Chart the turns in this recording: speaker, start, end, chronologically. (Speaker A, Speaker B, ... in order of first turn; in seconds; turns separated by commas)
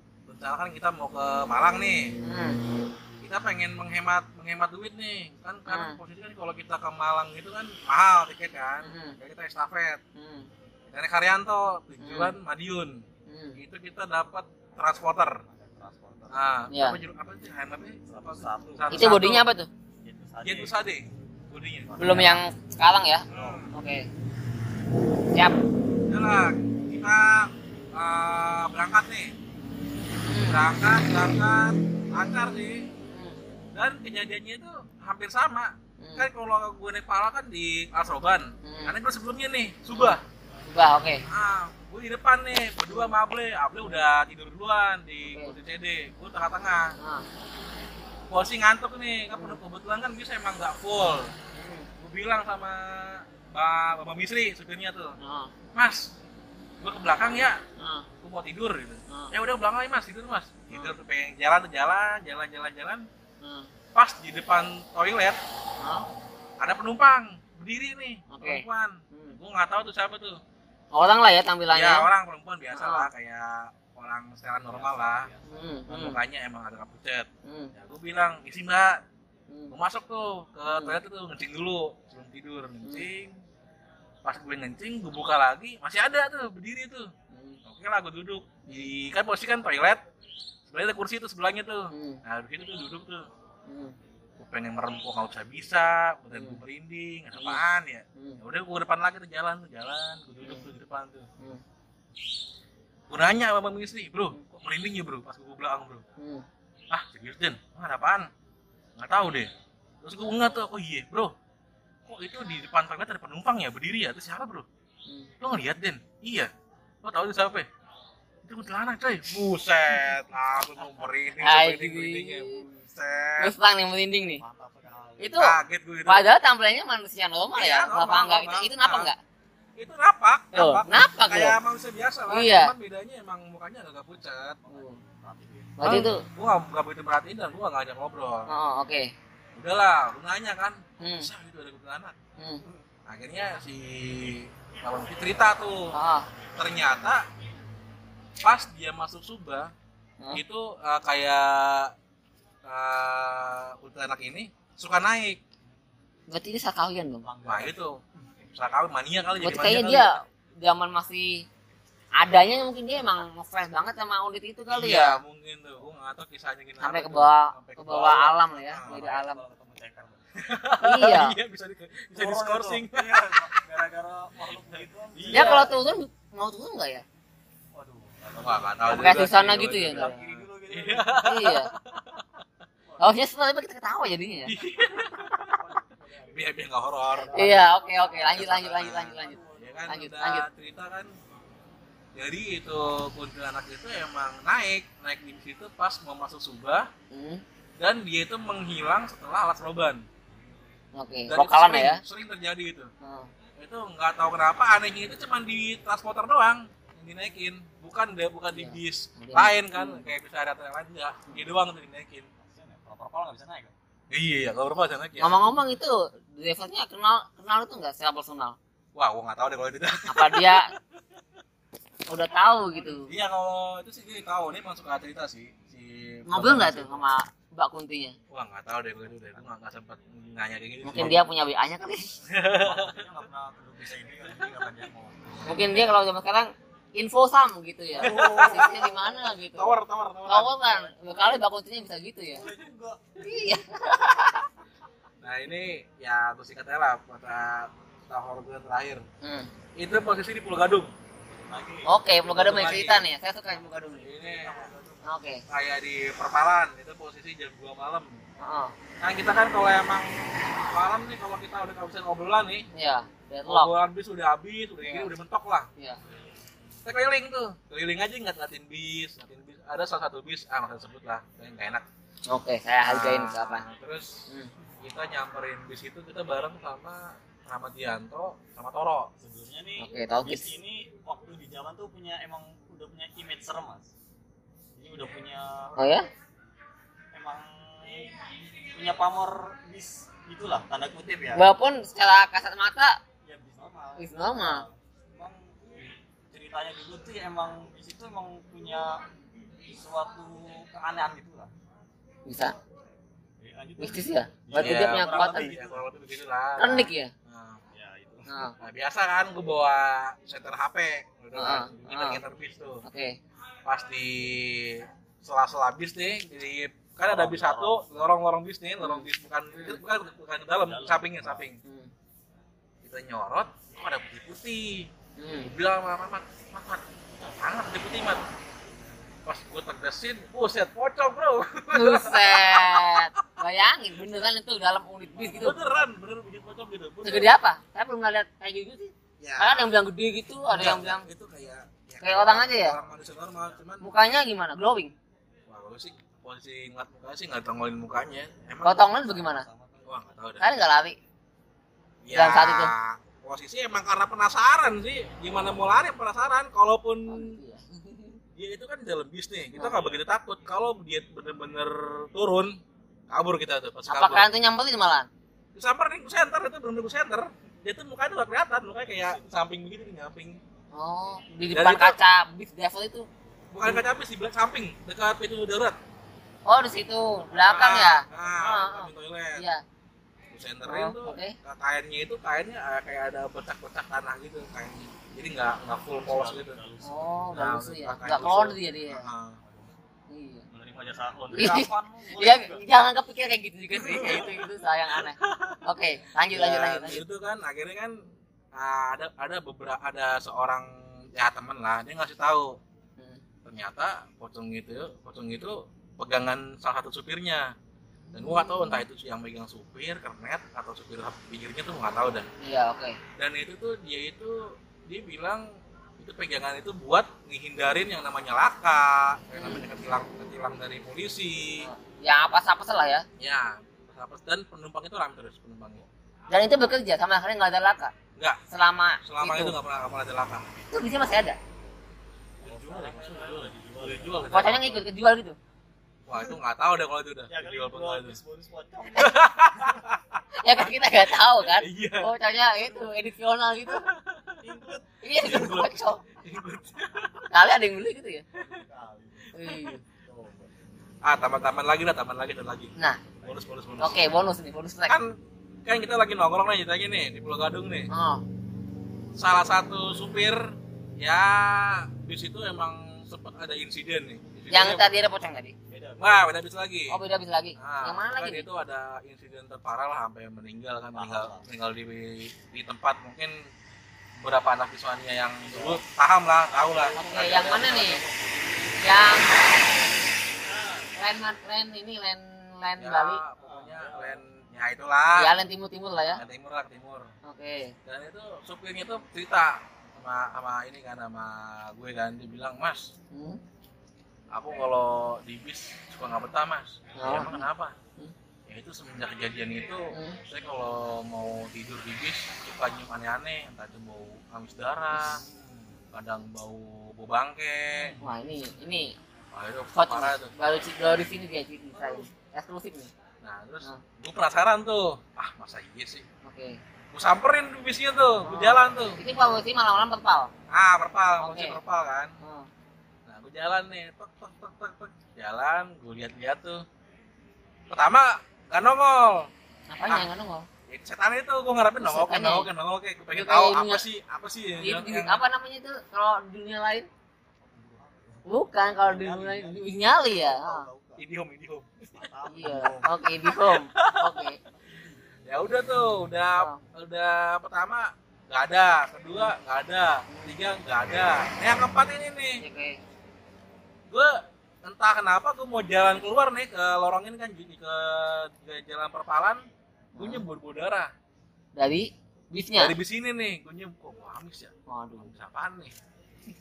Speaker A: 0.3-2.1, Speaker B: 2.2-2.6, Speaker A: 3.2-10.0, Speaker B: 5.7-6.0, Speaker B: 8.8-9.2, Speaker B: 10.2-10.5, Speaker A: 10.9-12.9, Speaker B: 12.0-12.3, Speaker B: 13.3-13.6, Speaker A: 13.6-15.4, Speaker C: 15.3-16.6, Speaker A: 16.3-19.4, Speaker B: 16.7-16.9, Speaker C: 18.1-19.2, Speaker B: 18.9-19.7, Speaker C: 20.0-20.9, Speaker A: 20.4-22.3, Speaker C: 21.9-22.4, Speaker B: 22.0-24.1, Speaker C: 23.3-23.7, Speaker A: 23.3-23.7, Speaker A: 26.1-29.3, Speaker B: 30.3-30.6, Speaker A: 30.5-32.9, Speaker B: 33.1-33.4, Speaker A: 33.7-40.2, Speaker B: 36.0-36.3, Speaker B: 38.6-38.9, Speaker B: 40.0-41.2, Speaker A: 41.3-46.9, Speaker B: 45.3-45.5, Speaker B: 47.0-47.2, Speaker A: 48.3-51.3, Speaker B: 51.5-51.9, Speaker A: 52.0-55.2, Speaker B: 55.2-55.5, Speaker A: 55.7-56.0, Speaker A: 56.8-57.6, Speaker B: 57.8-58.0, Speaker A: 58.2-63.0, Speaker B: 63.4-63.7, Speaker A: 64.0-65.4, Speaker B: 65.8-66.0, Speaker A: 66.6-70.4, Speaker B: 68.3-69.4, Speaker B: 70.9-72.0, Speaker A: 71.7-75.3, Speaker B: 72.7-73.1, Speaker C: 74.7-75.5, Speaker B: 75.5-76.2, Speaker A: 75.9-79.0, Speaker B: 77.5-77.7, Speaker A: 79.7-83.3, Speaker B: 80.7-81.0, Speaker A: 84.2-87.1, Speaker B: 87.3-87.6, Speaker A: 87.7-90.0, Speaker A: 90.7-93.2, Speaker B: 91.9-92.2, Speaker B: 93.7-94.0, Speaker A: 94.4-101.3, Speaker B: 96.3-96.6, Speaker A: 103.1-106.0, Speaker B: 106.2-106.5, Speaker A: 106.9-108.3, Speaker A: 109.0-109.5, Speaker A: 110.0-111.3, Speaker A: 112.1-114.7, Speaker A: 115.4-116.5, Speaker A: 117.0-117.7, Speaker A: 118.5-123.5, Speaker B: 121.4-122.6, Speaker B: 123.4-124.4, Speaker C: 124.4-125.5, Speaker B: 125.2-129.2, Speaker A: 125.4-126.2, Speaker A: 127.5-129.1, Speaker A: 129.8-134.6, Speaker B: 130.5-131.6, Speaker B: 132.3-132.7, Speaker C: 134.6-135.8, Speaker B: 134.7-135.0, Speaker B: 135.8-136.2, Speaker A: 135.8-138.5, Speaker B: 138.5-139.1, Speaker A: 139.6-142.2, Speaker B: 141.0-141.3, Speaker B: 142.4-142.6, Speaker A: 143.1-145.9, Speaker B: 145.9-146.3, Speaker A: 146.6-147.2, Speaker A: 148.4-149.7, Speaker A: 150.3-151.9, Speaker A: 152.6-155.4, Speaker B: 156.3-157.2, Speaker C: 157.2-157.8, Speaker A: 157.4-158.0, Speaker A: 158.6-160.1, Speaker B: 159.4-161.4, Speaker B: 162.2-165.2, Speaker A: 164.7-169.0, Speaker B: 166.8-169.4, Speaker C: 168.8-170.3, Speaker A: 170.4-173.6, Speaker B: 170.8-171.3, Speaker C: 172.1-175.7, Speaker A: 174.5-175.7, Speaker B: 175.3-177.1, Speaker C: 177.7-181.3, Speaker A: 178.4-181.7, Speaker B: 178.9-180.2, Speaker B: 181.2-181.7, Speaker C: 182.9-183.1, Speaker B: 183.0-184.5, Speaker A: 184.5-185.5, Speaker C: 185.0-186.5, Speaker A: 186.3-191.1, Speaker C: 187.2-189.8, Speaker B: 187.3-190.4, Speaker A: 192.1-196.9, Speaker B: 197.1-197.4, Speaker A: 197.8-200.0, Speaker B: 200.9-202.0, Speaker A: 201.3-202.9, Speaker B: 203.0-203.3, Speaker A: 203.6-212.3, Speaker B: 208.5-210.1, Speaker C: 212.4-213.7, Speaker A: 214.1-215.4, Speaker B: 215.2-218.6, Speaker A: 218.9-220.7, Speaker B: 220.1-220.7, Speaker B: 222.1-223.1, Speaker A: 223.1-227.0, Speaker B: 226.3-228.2, Speaker A: 228.3-231.2, Speaker B: 230.8-232.2, Speaker A: 232.3-233.0, Speaker C: 232.5-235.5, Speaker B: 235.4-239.7, Speaker C: 238.0-239.0, Speaker A: 238.0-240.6, Speaker B: 240.3-242.4, Speaker C: 240.7-241.4, Speaker C: 242.3-243.3, Speaker B: 243.2-244.4, Speaker A: 245.2-249.0, Speaker B: 249.2-249.5, Speaker A: 249.8-250.9, Speaker C: 251.5-252.7, Speaker B: 251.9-254.0, Speaker A: 252.3-253.1, Speaker C: 253.5-255.0, Speaker A: 254.0-254.7, Speaker B: 255.1-255.4, Speaker A: 255.5-258.2, Speaker B: 258.4-258.7, Speaker A: 259.0-262.6, Speaker B: 262.7-263.7, Speaker A: 263.5-265.7, Speaker B: 264.8-265.1, Speaker A: 266.8-271.8, Speaker B: 272.3-273.6, Speaker A: 272.9-274.2, Speaker A: 274.8-279.1, Speaker C: 279.2-283.9, Speaker B: 279.8-280.5, Speaker C: 284.7-285.8, Speaker B: 285.8-286.1, Speaker C: 287.1-291.5, Speaker B: 291.4-293.0, Speaker C: 293.2-299.0, Speaker B: 294.0-294.6, Speaker C: 299.7-301.5, Speaker B: 302.3-302.6, Speaker C: 303.4-305.8, Speaker B: 303.8-305.5, Speaker A: 304.6-307.6, Speaker B: 306.6-307.1, Speaker C: 307.7-308.3, Speaker B: 308.3-308.5, Speaker A: 308.6-312.8, Speaker B: 311.4-312.2, Speaker B: 312.8-313.1, Speaker A: 313.6-321.6, Speaker C: 317.1-317.9, Speaker B: 318.8-319.8, Speaker C: 320.6-321.5, Speaker B: 321.6-321.9, Speaker A: 322.8-326.8, Speaker B: 325.2-325.5, Speaker A: 327.3-328.2, Speaker A: 329.2-333.0, Speaker B: 331.7-335.6, Speaker A: 335.3-337.3, Speaker B: 337.0-341.0, Speaker A: 339.2-339.7, Speaker A: 340.5-343.8, Speaker B: 342.0-342.8, Speaker B: 343.8-344.9, Speaker A: 345.5-348.9, Speaker B: 348.6-349.4, Speaker C: 349.0-350.2, Speaker A: 349.9-350.4, Speaker B: 350.4-350.9, Speaker A: 352.0-357.4, Speaker B: 352.1-352.7, Speaker B: 357.1-358.2, Speaker A: 358.3-362.6, Speaker B: 359.6-359.8, Speaker C: 359.6-360.0, Speaker A: 363.1-364.3, Speaker B: 363.9-365.1, Speaker A: 365.6-370.4, Speaker B: 370.7-373.1, Speaker A: 371.5-371.9, Speaker A: 373.5-375.8, Speaker B: 376.4-379.6, Speaker A: 377.3-379.4, Speaker A: 380.3-386.6, Speaker B: 380.7-381.3, Speaker C: 386.0-387.3, Speaker B: 386.8-389.1, Speaker A: 387.3-389.4, Speaker C: 389.4-389.7, Speaker B: 390.1-390.4, Speaker C: 390.5-392.6, Speaker B: 391.3-397.0, Speaker A: 393.8-394.4, Speaker A: 395.3-395.6, Speaker A: 396.3-397.9, Speaker A: 398.5-402.6, Speaker A: 403.4-407.5, Speaker B: 408.1-408.8, Speaker A: 408.1-412.3, Speaker B: 412.4-413.0, Speaker A: 413.2-415.4, Speaker A: 416.0-421.7, Speaker B: 419.3-419.6, Speaker B: 421.6-423.1, Speaker A: 423.2-425.9, Speaker B: 426.3-427.9, Speaker B: 428.5-429.6, Speaker A: 429.1-430.4, Speaker B: 430.7-431.4, Speaker C: 432.4-434.5, Speaker A: 432.4-434.8, Speaker B: 434.3-435.4, Speaker A: 436.1-438.2, Speaker C: 437.3-439.8, Speaker A: 439.0-440.0, Speaker B: 440.4-443.8, Speaker A: 441.4-442.1, Speaker C: 442.6-442.9, Speaker C: 444.4-444.9, Speaker B: 445.0-446.0, Speaker A: 445.2-447.3, Speaker B: 447.3-448.2, Speaker C: 448.4-449.3, Speaker B: 449.3-449.8, Speaker C: 449.9-450.7, Speaker A: 451.0-452.7, Speaker C: 453.1-453.4, Speaker A: 453.2-454.0, Speaker B: 453.8-455.0, Speaker A: 454.9-455.1, Speaker A: 455.6-457.9, Speaker B: 457.9-458.2, Speaker A: 459.1-460.4, Speaker A: 461.0-464.9, Speaker B: 464.5-465.5, Speaker C: 465.7-466.3, Speaker A: 466.0-467.0, Speaker B: 466.9-468.4, Speaker A: 467.6-473.3, Speaker C: 470.9-471.4, Speaker A: 474.2-478.1, Speaker C: 475.4-475.9, Speaker C: 476.5-478.7, Speaker B: 476.9-478.0, Speaker B: 478.8-479.6, Speaker B: 481.0-483.2, Speaker A: 482.8-485.3, Speaker C: 483.4-484.2, Speaker B: 485.2-486.2, Speaker A: 486.1-487.1, Speaker B: 487.2-487.7, Speaker A: 487.9-492.9, Speaker B: 493.1-493.4, Speaker A: 494.3-497.7, Speaker B: 497.0-498.1, Speaker A: 498.5-505.2, Speaker B: 499.9-500.2, Speaker A: 505.9-508.0, Speaker B: 508.0-508.9, Speaker A: 509.3-510.3, Speaker B: 509.7-512.9, Speaker C: 511.7-512.1, Speaker A: 513.2-516.0, Speaker B: 516.2-516.6, Speaker A: 516.9-519.0, Speaker B: 518.2-520.3, Speaker A: 520.5-522.1, Speaker B: 521.2-521.6, Speaker B: 522.2-522.5, Speaker A: 523.0-526.6, Speaker A: 527.7-529.3, Speaker B: 529.7-530.5, Speaker A: 530.7-535.2, Speaker B: 531.8-532.5, Speaker B: 533.1-533.8, Speaker B: 534.6-536.9, Speaker C: 537.4-541.0, Speaker B: 538.3-540.6, Speaker A: 541.0-544.2, Speaker C: 541.9-542.9, Speaker B: 542.3-544.4, Speaker A: 545.3-552.4, Speaker B: 552.4-552.8, Speaker A: 553.9-559.4, Speaker B: 560.0-560.2, Speaker A: 560.0-560.9, Speaker B: 561.6-562.7, Speaker A: 562.6-565.7, Speaker B: 564.7-565.1